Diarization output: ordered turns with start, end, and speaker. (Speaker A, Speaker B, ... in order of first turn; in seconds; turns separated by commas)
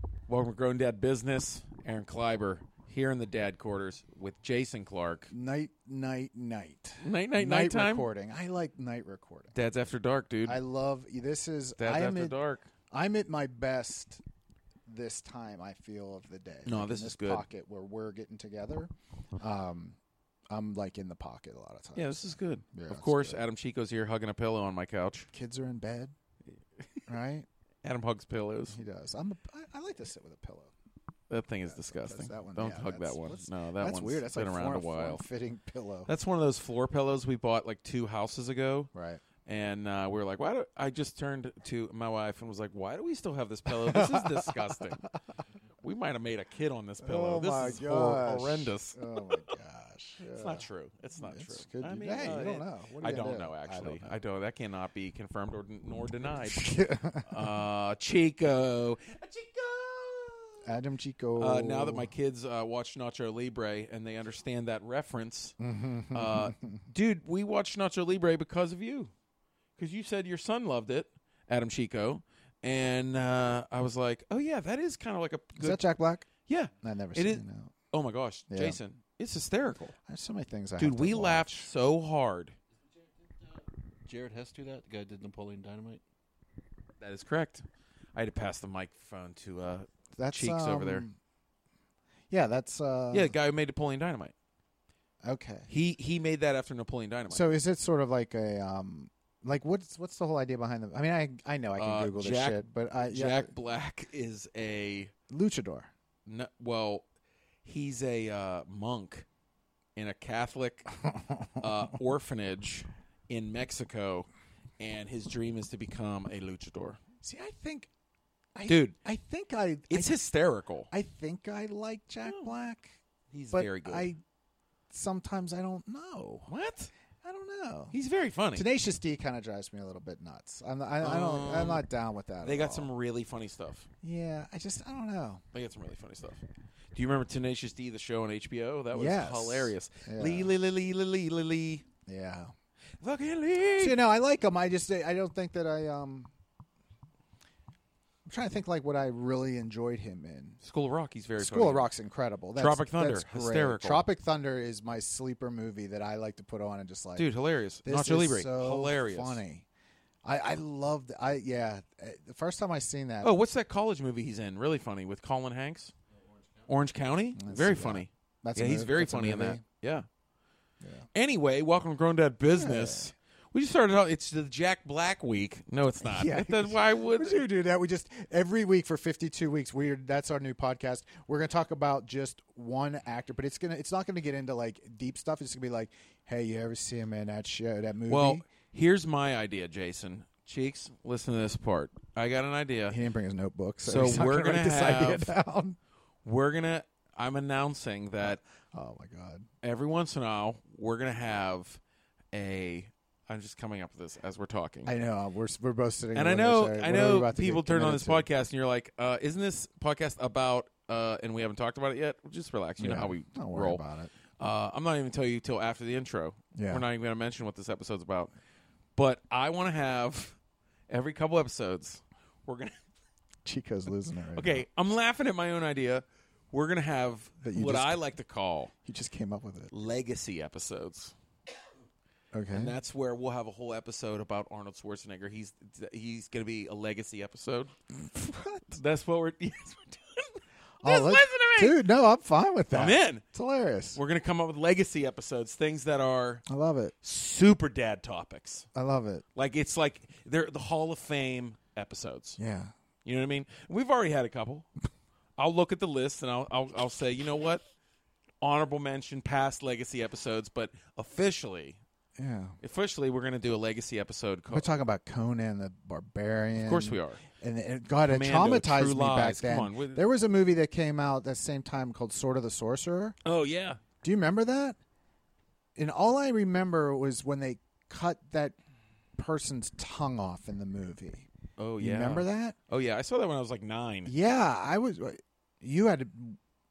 Speaker A: 0.3-5.3, Speaker B: 5.3-9.5, Speaker A: 7.0-8.1, Speaker A: 9.5-10.6, Speaker B: 10.4-12.4, Speaker A: 11.8-12.7, Speaker B: 12.9-14.2, Speaker B: 14.8-20.0, Speaker A: 16.6-17.4, Speaker B: 20.5-23.4, Speaker A: 21.9-25.3, Speaker B: 25.3-26.1, Speaker B: 27.1-27.4, Speaker A: 27.8-28.8, Speaker B: 28.7-30.7, Speaker A: 31.3-35.2, Speaker B: 31.7-36.1, Speaker A: 36.1-38.9, Speaker B: 38.9-39.2, Speaker A: 39.4-45.0, Speaker B: 43.7-45.1, Speaker A: 45.8-49.0, Speaker B: 47.0-50.6, Speaker A: 50.3-56.7, Speaker B: 51.2-54.2, Speaker B: 56.2-57.3, Speaker A: 57.2-60.7, Speaker B: 60.6-62.1, Speaker A: 61.4-65.5, Speaker B: 65.6-66.8, Speaker A: 66.1-69.1, Speaker A: 69.8-75.8, Speaker B: 75.6-76.3, Speaker A: 76.5-79.9, Speaker B: 76.8-77.7, Speaker B: 78.5-78.8, Speaker B: 79.9-81.7, Speaker A: 80.8-82.5, Speaker C: 83.2-86.0, Speaker A: 87.0-91.0, Speaker B: 90.2-91.2, Speaker B: 92.3-93.3, Speaker A: 93.1-94.3, Speaker B: 95.2-95.7, Speaker A: 95.7-97.4, Speaker B: 97.3-103.5, Speaker A: 101.8-105.1, Speaker B: 105.3-105.9, Speaker A: 106.2-107.0, Speaker A: 107.6-109.2, Speaker A: 110.0-110.9, Speaker A: 111.6-117.0, Speaker B: 117.2-117.9, Speaker B: 118.5-120.1, Speaker A: 118.7-118.9, Speaker A: 119.9-120.9, Speaker B: 120.9-123.0, Speaker A: 123.3-124.1, Speaker B: 123.5-124.2, Speaker B: 124.9-126.5, Speaker A: 126.5-126.9, Speaker B: 127.2-127.9, Speaker A: 127.9-128.7, Speaker B: 128.5-132.9, Speaker A: 131.0-131.8, Speaker A: 132.4-133.9, Speaker B: 134.0-135.4, Speaker A: 135.5-136.4, Speaker A: 136.9-141.8, Speaker B: 138.9-140.5, Speaker B: 142.1-142.5, Speaker A: 143.0-144.0, Speaker B: 143.8-146.3, Speaker B: 148.3-150.6, Speaker A: 150.6-151.9, Speaker B: 151.4-157.3, Speaker A: 152.6-154.0, Speaker A: 157.2-159.4, Speaker B: 157.8-159.6, Speaker B: 160.2-163.3, Speaker A: 163.2-165.9, Speaker C: 166.1-166.7, Speaker A: 166.7-170.1, Speaker B: 167.3-169.6, Speaker B: 170.8-171.1, Speaker A: 171.1-177.4, Speaker B: 172.5-173.1, Speaker B: 176.0-188.4, Speaker A: 188.1-193.0, Speaker B: 192.9-195.8, Speaker A: 193.8-195.3, Speaker A: 196.2-198.4, Speaker B: 198.2-199.5, Speaker A: 199.6-201.8, Speaker A: 202.3-204.9, Speaker B: 204.8-208.3, Speaker A: 206.1-213.8, Speaker B: 212.8-214.1, Speaker A: 214.4-218.3, Speaker B: 216.5-216.8, Speaker A: 218.9-220.4, Speaker A: 220.9-222.8, Speaker B: 223.4-224.6, Speaker A: 224.3-228.7, Speaker B: 227.4-228.0, Speaker B: 228.8-229.7, Speaker A: 229.7-231.1, Speaker B: 232.3-232.7, Speaker A: 232.5-237.7, Speaker B: 238.0-238.8, Speaker A: 238.7-241.8, Speaker B: 240.8-244.0, Speaker A: 242.7-243.2, Speaker A: 243.9-246.4, Speaker B: 246.5-246.9, Speaker A: 247.0-248.7, Speaker B: 248.7-249.2, Speaker A: 249.3-252.4, Speaker B: 252.4-252.7, Speaker A: 253.0-254.7, Speaker A: 255.4-257.6, Speaker A: 258.4-261.8, Speaker B: 262.2-262.6, Speaker A: 262.6-264.7, Speaker B: 264.5-273.2, Speaker A: 266.6-267.2, Speaker A: 268.1-270.0, Speaker A: 273.2-273.8, Speaker B: 274.0-274.8, Speaker B: 275.8-278.6, Speaker B: 279.1-281.3, Speaker A: 281.6-284.1, Speaker B: 281.8-282.6, Speaker B: 284.1-286.4